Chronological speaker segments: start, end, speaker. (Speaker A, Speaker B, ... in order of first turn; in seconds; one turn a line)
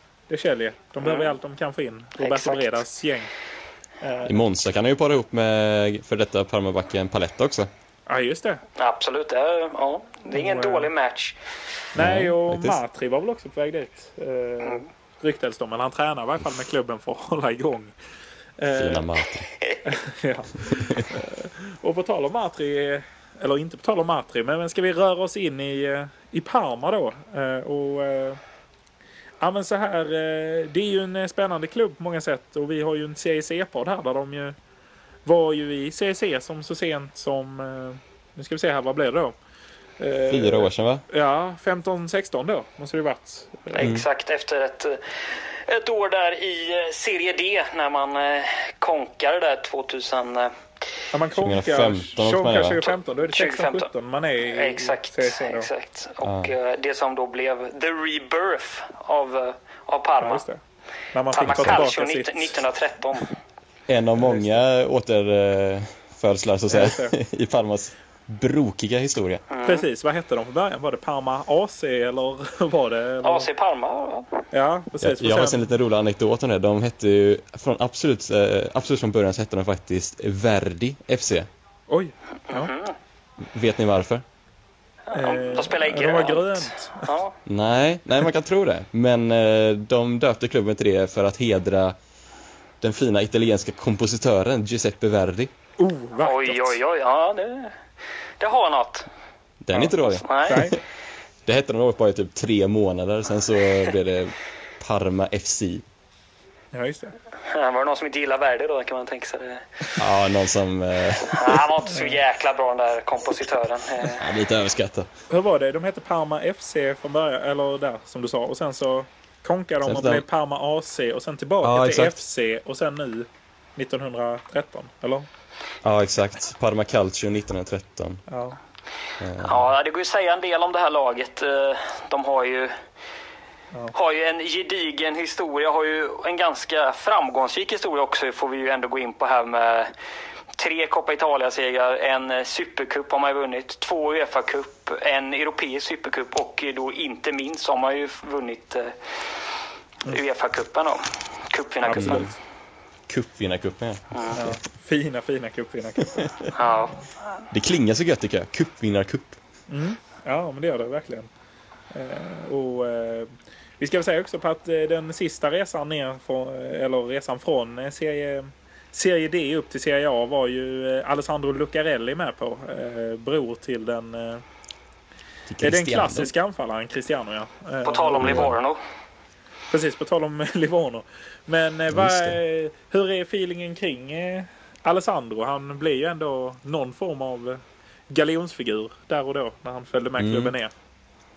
Speaker A: 0.3-3.3
Speaker B: 1.0-1.3
Speaker B: 2.2-2.8
Speaker A: 4.0-4.4
Speaker C: 4.2-7.7
Speaker A: 8.1-8.6
Speaker B: 8.8-11.4
Speaker A: 10.3-10.9
Speaker A: 11.9-17.9
Speaker C: 11.9-12.8
Speaker A: 18.6-19.1
Speaker C: 18.7-19.5
Speaker A: 19.8-28.4
Speaker C: 20.7-21.1
Speaker A: 29.4-34.5
Speaker A: 35.2-39.3
Speaker A: 40.0-43.9
Speaker C: 40.3-41.0
Speaker B: 43.7-50.5
Speaker C: 43.8-44.0
Speaker A: 51.1-55.7
Speaker C: 51.4-52.9
Speaker B: 53.2-53.9
Speaker B: 54.4-60.4
Speaker C: 56.2-56.5
Speaker A: 60.2-60.6
Speaker A: 61.1-62.6
Speaker B: 61.3-63.3
Speaker C: 61.5-61.8
Speaker C: 63.9-69.4
Speaker A: 64.2-64.6
Speaker A: 66.7-67.2
Speaker B: 69.5-69.8
Speaker A: 69.6-73.5
Speaker B: 73.2-74.4
Speaker A: 74.5-75.7
Speaker C: 75.0-81.5
Speaker A: 81.9-82.7
Speaker B: 82.5-82.9
Speaker C: 83.4-84.2
Speaker B: 85.1-87.3
Speaker A: 85.1-87.1
Speaker C: 87.5-92.0
Speaker C: 92.8-95.5
Speaker A: 95.8-96.8
Speaker B: 96.2-97.8
Speaker B: 98.4-99.1
Speaker C: 99.6-100.8
Speaker B: 100.0-100.7
Speaker A: 100.5-100.8
Speaker C: 101.4-105.8
Speaker A: 106.7-107.1
Speaker B: 107.4-109.7
Speaker C: 110.0-111.7
Speaker B: 111.2-114.3
Speaker A: 111.9-112.2
Speaker C: 114.0-115.1
Speaker A: 115.3-125.3
Speaker C: 119.8-120.2
Speaker C: 121.6-122.2
Speaker C: 125.8-128.2
Speaker A: 128.3-128.6
Speaker C: 129.2-129.7
Speaker B: 129.4-132.7
Speaker B: 133.9-139.9
Speaker B: 140.6-148.9
Speaker B: 150.0-152.3
Speaker A: 151.8-152.3
Speaker C: 151.9-152.3
Speaker C: 153.1-154.1
Speaker B: 154.1-154.5
Speaker A: 154.3-156.7
Speaker C: 156.1-156.5
Speaker B: 156.5-157.0
Speaker C: 157.5-159.4
Speaker A: 159.7-161.3
Speaker A: 161.9-174.4
Speaker C: 175.5-176.3
Speaker A: 175.6-178.5
Speaker B: 177.8-178.8
Speaker C: 178.2-178.5
Speaker A: 179.7-190.7
Speaker C: 181.9-182.4
Speaker C: 190.2-190.5